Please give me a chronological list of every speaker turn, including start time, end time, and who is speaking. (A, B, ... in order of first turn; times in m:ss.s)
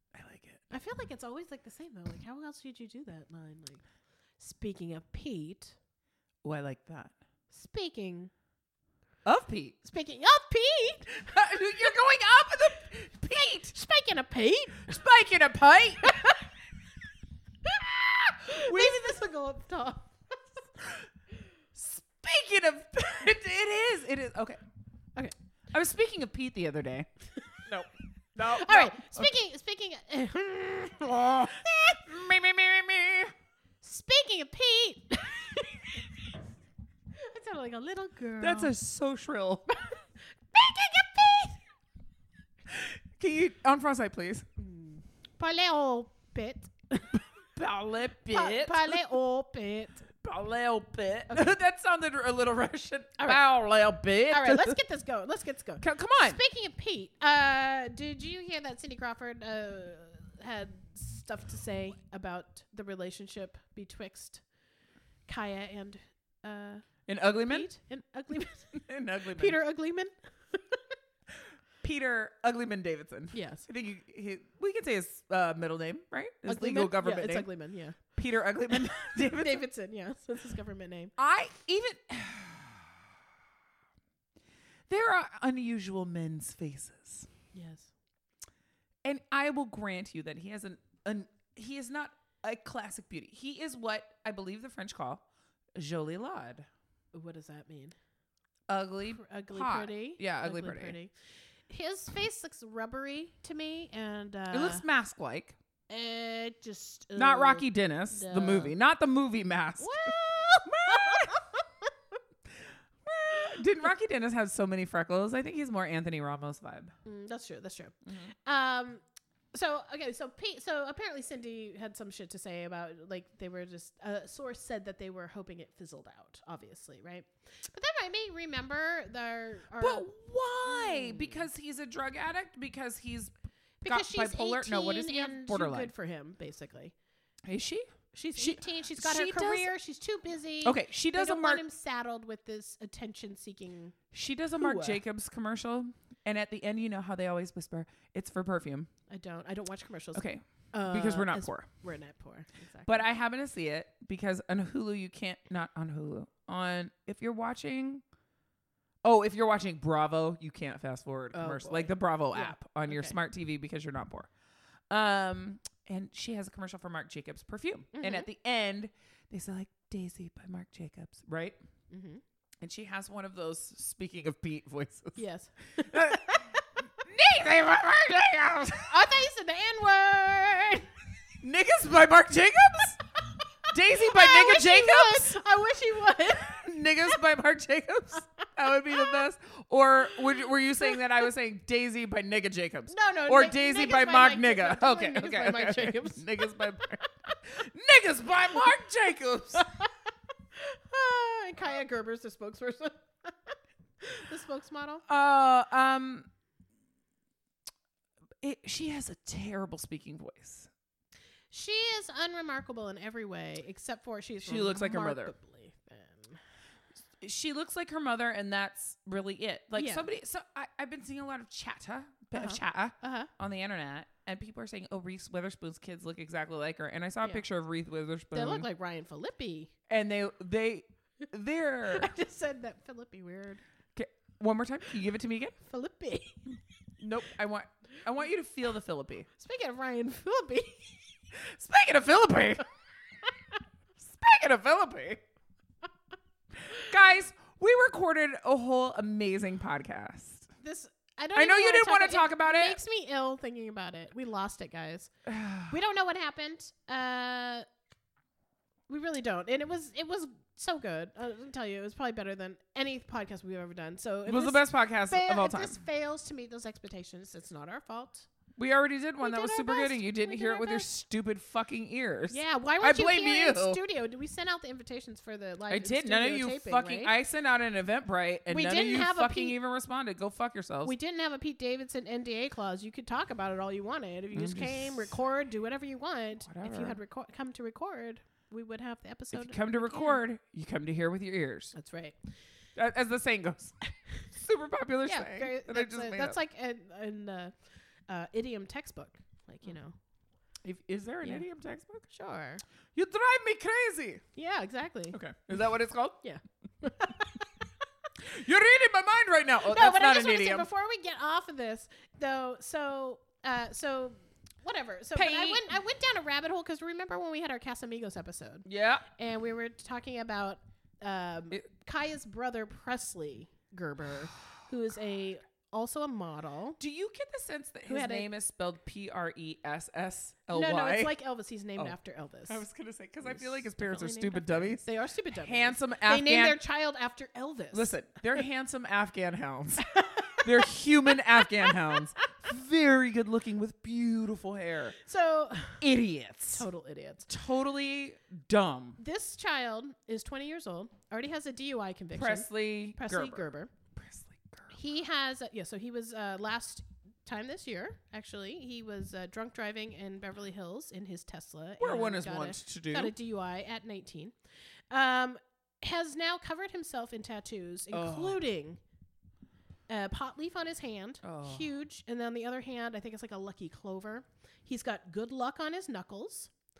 0:00.1-0:00.6 A
0:00.7-0:03.8 B
0:04.4-0:05.7 B
0:06.4-0:07.1 A
0:07.5-0:08.3 B
0:09.2-0:09.8 A
0:09.8-0:11.3 B
0:11.1-0:13.7 A
0:13.7-0:14.9 B
0:14.8-0:16.2 A
0:16.0-0:16.5 B
0:17.8-0:19.2 A
0:18.4-0:20.4 B
0:21.7-0:24.6 A
0:25.7-0:27.1 A
0:27.7-0:29.3 A
0:28.4-0:32.0 B
0:31.0-0:33.3 A
0:33.8-0:36.1 B
0:37.1-0:38.7 B
0:38.4-0:39.7 A
0:40.5-0:41.6 B
0:42.7-0:44.5 A
0:44.6-0:47.2 B
0:47.5-0:49.0 A
0:48.3-0:50.1 B
0:50.2-0:54.8 A
0:54.3-1:04.4 B
0:55.8-0:56.4 A
1:05.3-1:08.8 B
1:07.1-1:07.7 A
1:08.7-1:09.6 A
1:09.3-1:10.8 B
1:11.8-1:17.5 A
1:13.3-1:13.6 B
1:16.5-1:18.0 B
1:18.1-1:19.6 A
1:18.7-1:21.1 B
1:21.2-1:22.9 A
1:24.9-1:27.3 A
1:27.5-1:27.9 B
1:29.0-1:35.2 A
1:35.8-1:36.7 A
1:37.1-1:37.9 B
1:38.7-1:41.0 A
1:39.1-1:41.1 B
1:41.7-1:44.8 B
1:44.5-1:45.6 A
1:45.9-1:48.7 B
1:47.2-1:50.1 A
1:49.8-1:51.9 B
1:50.6-1:51.4 A
1:53.0-1:56.9 A
1:57.0-2:10.1 B
1:58.0-1:58.3 A
2:09.8-2:13.3 A
2:10.6-2:11.4 B
2:13.8-2:16.9 B
2:13.8-2:15.9 A
2:17.4-2:19.7 A
2:18.1-2:24.0 B
2:20.6-2:21.6 A
2:24.1-2:28.9 A
2:24.6-2:25.0 B
2:29.1-2:33.0 B
2:30.1-2:31.7 A
2:32.8-2:38.0 A
2:39.0-2:44.3 A
2:41.3-2:43.2 B
2:44.9-2:51.6 A
2:47.9-2:48.3 B
2:51.9-2:52.2 B
2:52.6-2:55.2 A
2:55.2-2:56.6 B
2:55.8-2:56.4 A
2:57.0-2:59.0 A
2:58.8-3:00.9 B
3:01.4-3:03.0 A
3:03.7-3:06.7 B
3:03.7-3:05.4 A
3:06.4-3:19.7 A
3:08.9-3:09.2 B
3:12.9-3:16.8 B
3:19.6-3:19.9 B
3:20.5-3:25.0 B
3:25.1-3:26.3 A
3:28.4-3:30.7 A
3:31.5-3:36.4 B
3:34.4-3:35.3 A
3:37.2-3:48.7 A
3:39.7-3:40.1 B
3:42.3-3:43.3 B
3:48.3-3:49.7 B
3:49.9-3:52.1 A
3:51.9-3:53.6 B
3:54.0-3:55.6 A
3:55.6-3:56.4 B
3:57.0-3:59.3 A
3:59.4-4:01.1 B
4:01.3-4:02.6 A
4:04.0-4:05.2 A
4:06.6-4:10.5 A
4:10.6-4:15.1 B
4:11.3-4:12.8 A
4:15.3-4:15.8 A
4:15.7-4:17.6 B
4:18.9-4:28.3 B
4:24.2-4:25.8 A
4:28.6-4:33.8 A
4:29.2-4:30.9 B
4:32.3-4:37.1 B
4:35.7-4:40.9 A
4:38.5-4:39.6 B
4:40.8-4:50.2 B
4:44.3-4:45.1 A
4:46.4-4:47.0 A
4:49.3-4:51.7 A
4:51.7-4:52.2 B
4:52.8-4:53.8 A
4:54.3-4:56.4 A
4:55.1-4:57.5 B
4:58.1-5:00.0 B
5:00.6-5:02.1 A
5:02.1-5:02.6 B
5:02.9-5:04.2 A
5:04.4-5:05.2 B
5:05.1-5:06.2 A
5:06.2-5:07.4 B
5:08.2-5:10.7 A
5:09.6-5:26.8 B
5:15.1-5:15.6 A
5:18.6-5:19.1 A
5:26.8-5:31.1 A
5:27.9-5:28.3 B
5:30.5-5:32.6 B
5:32.5-5:36.6 A
5:33.2-5:37.9 B
5:37.7-5:39.8 A
5:39.8-5:42.1 B
5:40.4-5:45.0 A
5:45.0-5:45.8 B
5:45.8-5:46.6 A
5:46.5-5:47.3 B
5:47.3-5:49.0 A
5:49.0-5:53.7 B
5:52.1-5:53.4 A
5:53.9-5:54.8 A
5:54.7-6:04.3 B
6:01.8-6:03.1 A
6:04.9-6:08.8 B
6:07.9-6:08.4 A
6:09.9-6:16.5 B
6:11.2-6:11.7 A